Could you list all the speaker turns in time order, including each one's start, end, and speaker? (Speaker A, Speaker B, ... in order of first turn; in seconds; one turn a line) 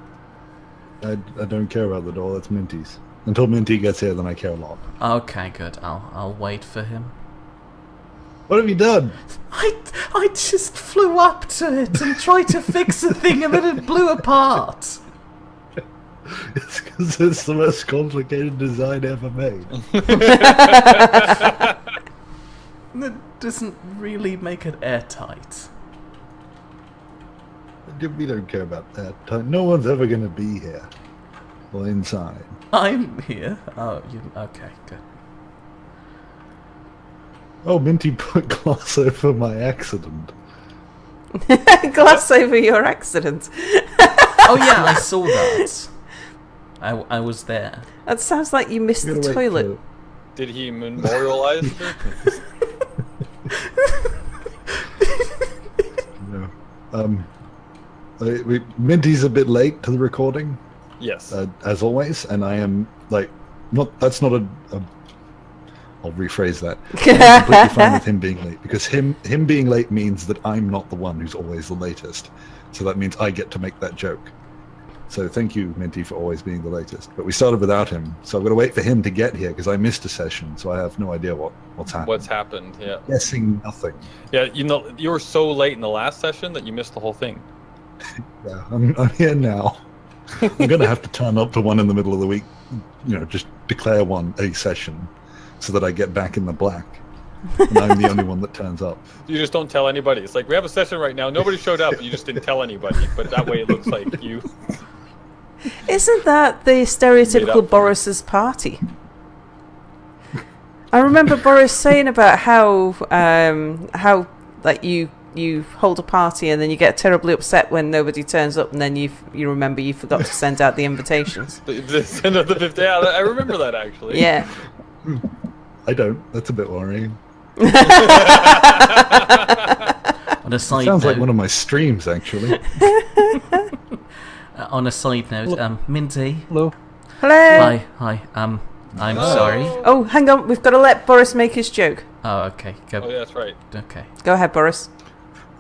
Speaker A: 1.0-4.8
Speaker B: 5.0-7.1
Speaker A: 8.5-9.2
Speaker B: 9.5-15.0
Speaker A: 16.3-19.8
Speaker C: 19.9-21.7
Speaker D: 20.1-21.4
Speaker B: 22.9-25.7
Speaker A: 27.9-30.9
Speaker A: 31.7-32.5
Speaker B: 32.7-35.0
Speaker A: 37.6-40.3
Speaker D: 41.4-45.0
Speaker B: 44.4-45.9
Speaker B: 46.8-47.9
Speaker D: 48.0-49.7
Speaker A: 49.0-49.8
Speaker C: 50.4-52.3
Speaker A: 56.2-57.3
Speaker A: 58.2-60.6
Speaker C: 61.0-61.4
Speaker A: 61.3-64.9
Speaker A: 66.0-74.3
Speaker D: 67.0-68.0
Speaker A: 75.1-82.3
Speaker C: 82.0-83.1
Speaker A: 83.1-84.1
Speaker C: 84.3-87.4
Speaker A: 88.4-89.8
Speaker A: 90.4-97.0
Speaker A: 97.7-99.0
Speaker C: 99.3-104.6
Speaker D: 105.8-108.8
Speaker C: 107.2-108.0
Speaker D: 110.9-121.6
Speaker C: 121.7-124.3
Speaker D: 124.1-124.5
Speaker A: 125.8-127.2
Speaker D: 127.6-129.7
Speaker C: 127.9-129.2
Speaker B: 130.4-131.3
Speaker A: 130.7-132.7
Speaker D: 132.8-133.7
Speaker B: 134.6-136.5
Speaker D: 137.2-137.7
Speaker B: 137.5-139.8
Speaker A: 139.0-139.7
Speaker C: 139.1-139.9
Speaker D: 139.3-142.1
Speaker B: 142.2-144.1
Speaker C: 143.0-143.6
Speaker D: 144.2-144.9